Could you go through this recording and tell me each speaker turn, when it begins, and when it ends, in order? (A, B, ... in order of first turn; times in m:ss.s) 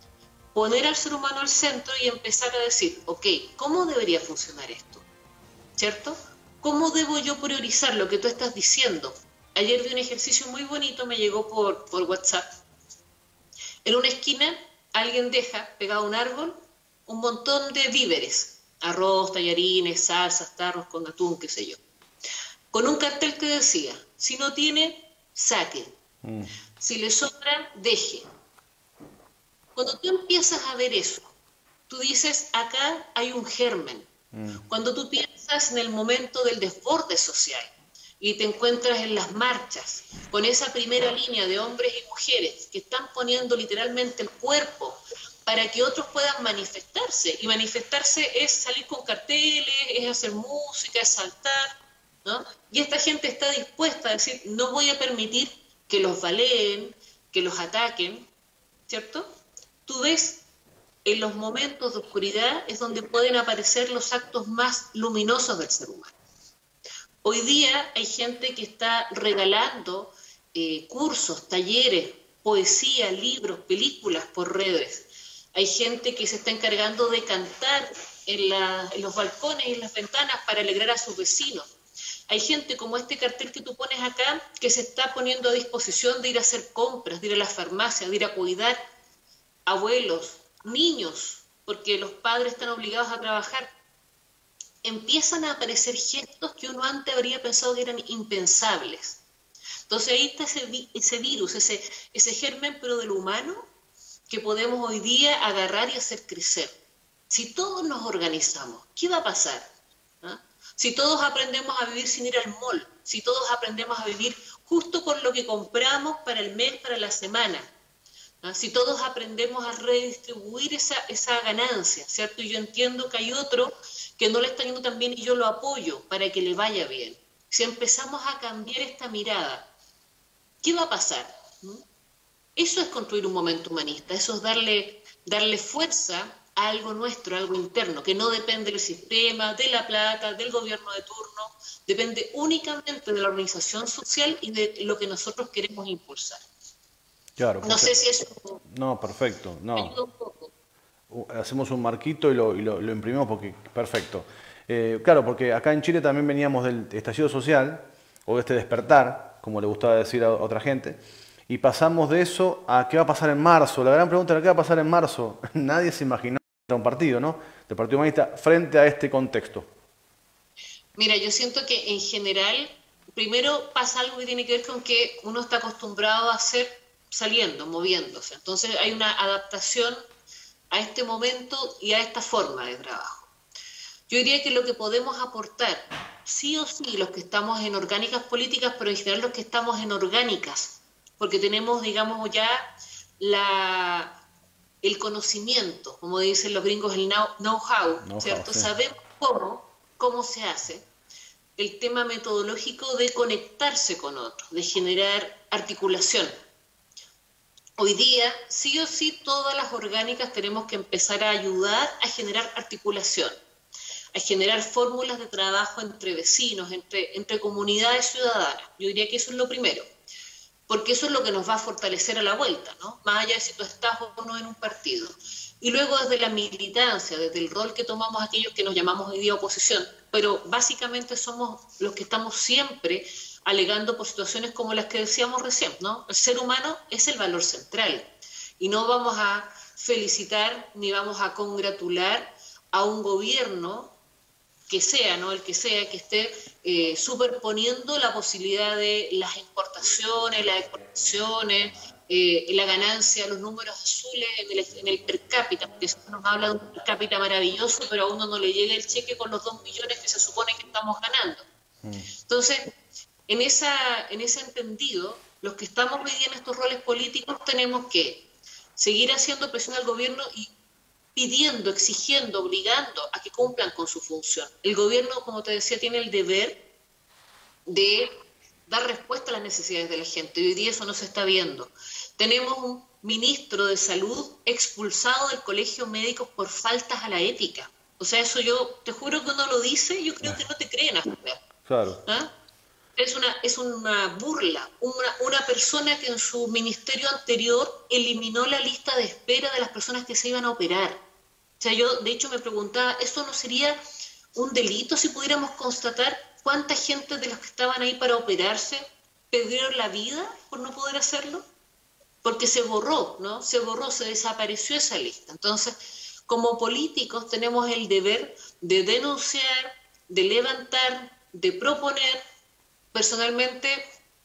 0:00.6-0:05.0 A
0:05.8-0:12.5 A
0:13.8-0:21.8 A
0:22.7-0:25.9 A
0:26.2-0:26.5 B
0:26.8-0:28.3 A
0:29.8-0:31.3 A
0:31.9-0:34.1 A
0:34.3-0:34.6 B
0:34.7-0:51.7 A
0:52.2-0:58.3 A
0:58.9-0:59.3 A
0:59.9-1:00.4 A
1:01.0-1:06.1 A
1:07.2-1:21.7 A
1:22.3-1:28.8 A
1:29.7-1:33.7 A
1:34.8-1:39.2 A
1:39.9-1:43.7 A
1:44.3-1:46.8 A
1:47.3-1:49.7 A
1:50.2-1:57.7 A
1:58.4-2:09.7 A
2:10.6-2:11.8 A
2:12.6-2:26.4 A
2:27.4-2:27.9 B
2:27.6-2:28.6 A
2:28.7-2:29.9 B
2:29.8-2:30.5 A
2:31.1-2:49.7 B
2:51.0-3:00.0 A
3:00.7-3:03.3 A
3:04.1-3:12.7 A
3:13.2-3:14.2 A
3:14.8-3:20.9 A
3:18.0-3:18.7 B
3:21.6-3:26.3 A
3:27.8-3:33.4 A
3:34.1-3:39.9 A
3:40.7-4:04.0 A
4:04.7-4:21.5 A
4:21.8-4:22.1 B
4:22.3-4:22.7 A
4:23.3-4:30.5 A
4:31.2-4:36.6 A
4:37.7-4:38.1 A
4:38.7-4:51.4 A
4:51.7-4:52.0 B
4:52.0-4:52.3 A
4:53.0-5:01.0 A
5:01.6-5:03.8 A
5:04.4-5:11.4 A
5:12.2-5:15.8 A
5:16.3-5:22.2 A
5:22.9-5:23.9 A